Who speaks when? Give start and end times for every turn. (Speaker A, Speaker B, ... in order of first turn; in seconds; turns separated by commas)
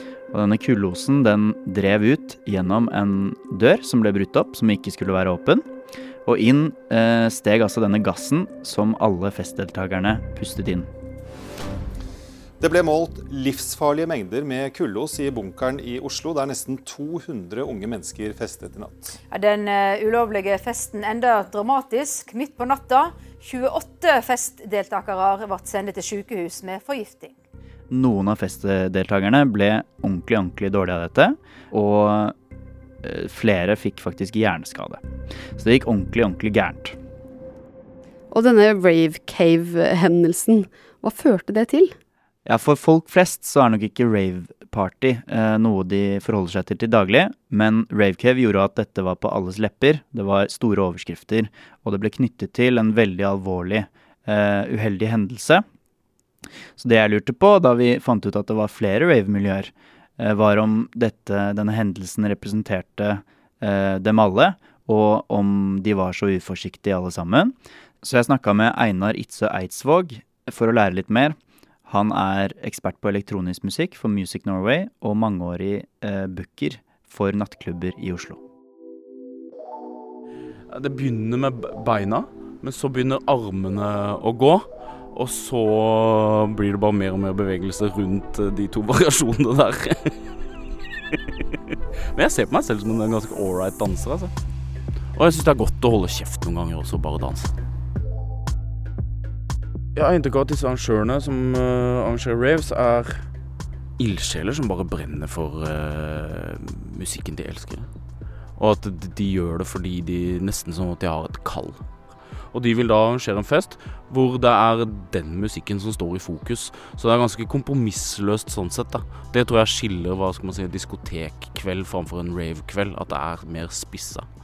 Speaker A: 0.3-5.7, Speaker A: 6.2-10.9, Speaker B: 12.6-19.2, Speaker C: 19.3-27.4, Speaker A: 27.9-32.3, Speaker A: 33.0-35.0, Speaker A: 35.6-37.0, Speaker D: 38.3-41.9, Speaker A: 42.5-55.6, Speaker A: 56.8-71.3, Speaker A: 71.9-78.4, Speaker E: 80.7-90.2, Speaker E: 91.1-94.3, Speaker E: 95.1-97.6, Speaker E: 99.9-103.2, Speaker E: 104.0-107.9, Speaker E: 108.6-111.8, Speaker E: 112.5-124.2